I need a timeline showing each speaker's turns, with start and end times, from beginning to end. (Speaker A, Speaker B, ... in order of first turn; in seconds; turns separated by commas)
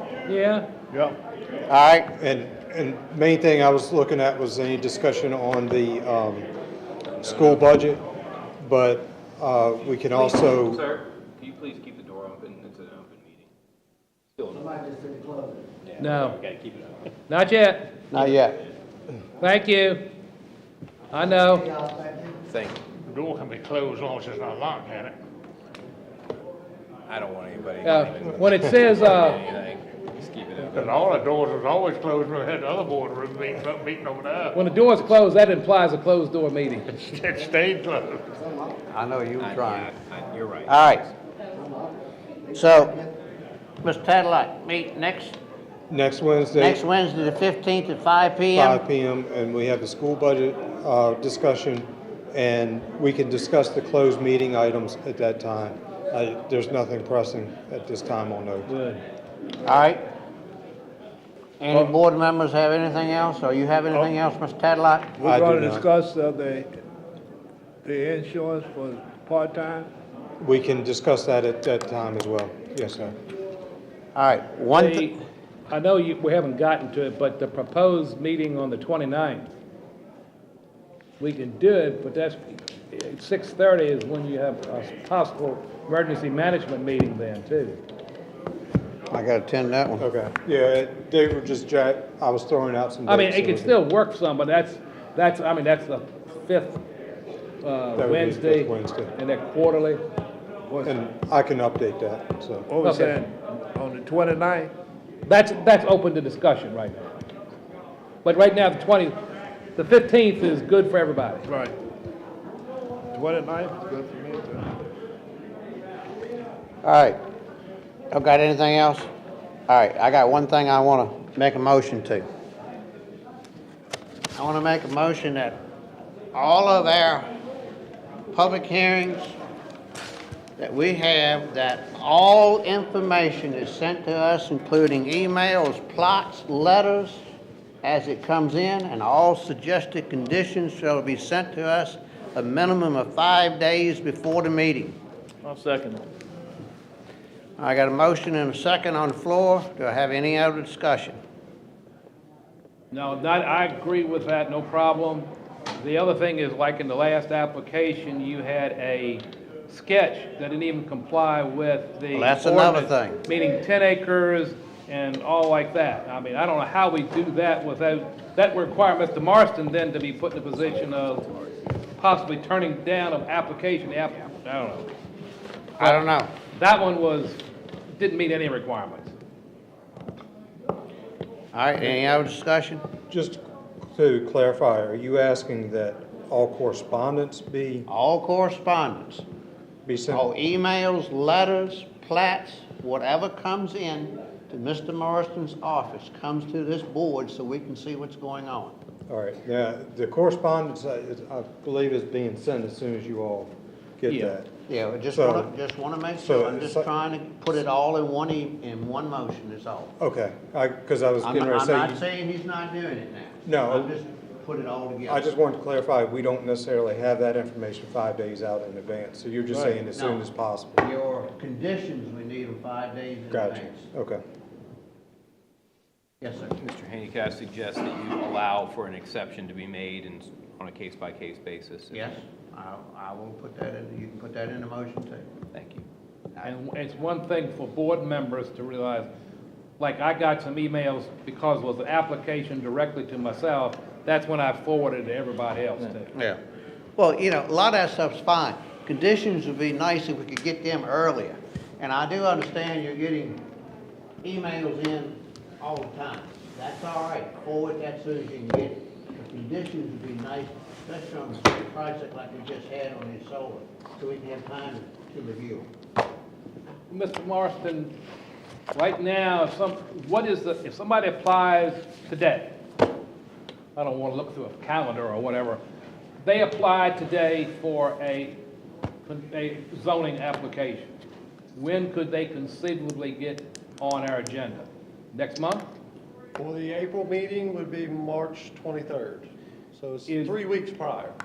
Speaker A: 0.2-0.7, Speaker B: 1.7-2.1, Speaker C: 2.1-6.5, Speaker C: 7.2-8.0, Speaker C: 8.6-10.8, Speaker D: 10.2-13.5, Speaker D: 14.4-15.1, Speaker D: 15.8-17.1, Speaker A: 16.0-16.4, Speaker A: 17.3-18.3, Speaker B: 18.1-18.6, Speaker A: 19.4-20.0, Speaker A: 21.1-21.7, Speaker D: 22.5-22.8, Speaker E: 23.1-25.1, Speaker D: 27.1-31.1, Speaker A: 27.8-29.4, Speaker E: 30.7-34.6, Speaker A: 34.5-36.9, Speaker E: 36.9-38.3, Speaker B: 38.9-39.9, Speaker D: 39.4-40.8, Speaker B: 40.6-41.1, Speaker B: 42.5-43.1, Speaker B: 43.8-45.4, Speaker C: 45.9-46.8, Speaker B: 46.6-48.8, Speaker C: 48.5-58.7, Speaker A: 58.7-59.0, Speaker B: 59.6-60.0, Speaker B: 61.6-65.2, Speaker F: 65.2-66.7, Speaker C: 65.2-65.9, Speaker F: 67.8-69.9, Speaker C: 70.4-73.1, Speaker B: 74.1-75.1, Speaker A: 74.7-79.5, Speaker A: 81.2-87.8, Speaker B: 89.1-90.0, Speaker C: 90.0-93.8, Speaker A: 93.1-96.8, Speaker A: 97.6-100.0, Speaker C: 98.0-99.1, Speaker F: 100.7-101.0, Speaker C: 100.8-102.7, Speaker F: 102.7-104.7, Speaker A: 102.8-103.2, Speaker A: 105.2-107.1, Speaker A: 108.2-109.2, Speaker A: 109.8-111.5, Speaker F: 111.5-111.8, Speaker F: 113.1-114.7, Speaker B: 116.8-117.2, Speaker B: 118.1-119.1, Speaker B: 119.7-122.3, Speaker B: 124.3-125.6, Speaker B: 126.3-127.3, Speaker B: 128.3-129.3, Speaker B: 130.6-137.2, Speaker B: 137.8-145.0, Speaker B: 147.6-151.2, Speaker A: 152.9-171.2, Speaker B: 162.1-163.2, Speaker A: 172.0-174.9, Speaker B: 175.8-176.3, Speaker A: 175.8-177.4, Speaker A: 177.9-179.1, Speaker B: 181.5-182.8, Speaker C: 183.1-183.4, Speaker C: 183.9-187.9, Speaker B: 187.9-189.2, Speaker C: 189.8-190.3, Speaker B: 190.1-198.8, Speaker C: 199.1-204.5, Speaker A: 204.1-204.3, Speaker B: 204.7-209.9, Speaker C: 205.1-205.5, Speaker C: 206.2-206.9, Speaker C: 210.0-212.0, Speaker B: 211.2-215.2, Speaker C: 213.5-213.9, Speaker C: 215.1-220.8, Speaker B: 219.7-220.2, Speaker B: 220.8-223.9, Speaker C: 223.3-224.2, Speaker B: 226.2-226.6, Speaker D: 226.6-232.1, Speaker B: 231.9-235.2, Speaker D: 235.5-235.8, Speaker A: 236.4-239.1, Speaker A: 239.8-246.1, Speaker B: 246.1-246.4, Speaker B: 247.0-253.4, Speaker B: 254.2-265.7, Speaker A: 266.9-267.9, Speaker A: 268.7-272.6, Speaker A: 273.8-275.6, Speaker A: 276.2-278.4, Speaker A: 279.1-280.9, Speaker A: 281.6-285.7, Speaker G: 286.4-291.2, Speaker A: 290.1-290.4